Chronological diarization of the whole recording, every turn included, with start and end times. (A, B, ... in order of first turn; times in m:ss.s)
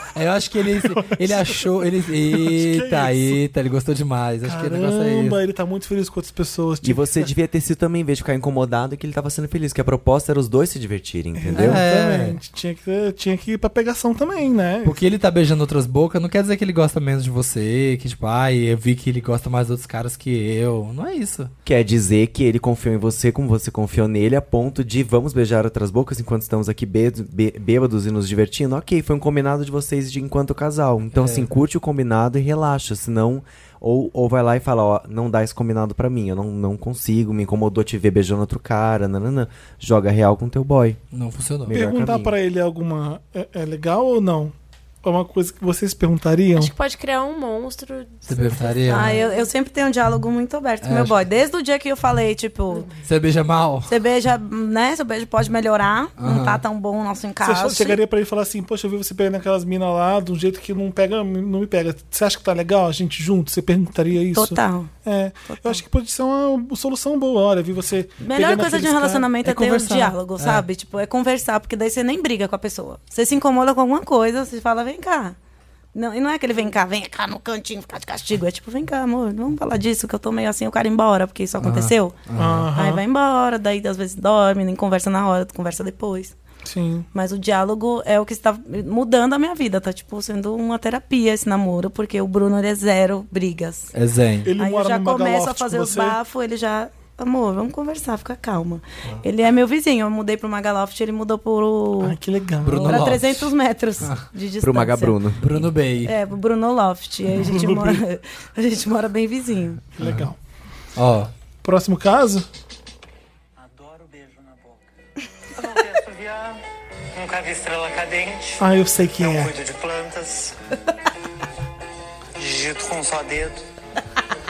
0:00.2-0:05.4 A
0:00.7-0:01.6 B
0:02.3-0:03.4 B
0:04.4-0:07.3 B
0:06.8-0:11.8 C
0:11.4-0:15.0 B
0:11.6-0:12.4 A
0:14.8-0:21.5 A
0:21.6-0:41.0 C
0:31.2-0:31.5 A
0:41.1-0:41.8 A
0:41.6-0:42.4 C
0:41.7-0:46.7 B
0:46.5-0:49.5 D
0:48.3-0:49.2 A
0:48.9-0:52.9 E
0:50.8-0:51.2 A
0:53.0-0:53.9 A
0:53.9-0:58.0 E
0:56.2-0:56.6 A
0:57.4-1:09.3 B
1:04.3-1:04.9 E
1:05.5-1:05.8 E
1:08.2-1:15.4 E
1:09.4-1:10.6 A
1:15.9-1:22.2 E
1:21.6-1:22.7 A
1:22.4-1:23.0 B
1:22.7-1:26.4 E
1:26.6-1:27.1 B
1:27.1-1:33.9 E
1:33.9-1:34.5 A
1:34.4-1:36.2 B
1:34.6-1:42.2 E
1:42.0-1:43.1 B
1:42.6-1:43.5 A
1:42.8-1:49.8 E
1:44.6-1:45.4 C
1:45.4-1:46.2 A
1:47.3-1:48.0 B
1:50.0-1:50.4 B
1:50.0-1:50.3 A
1:51.0-1:51.3 A
1:51.6-1:52.5 B
1:53.6-1:54.9 F
1:55.5-1:56.6 F
1:57.2-2:00.6 F
1:58.6-1:59.6 B
2:02.4-2:03.6 F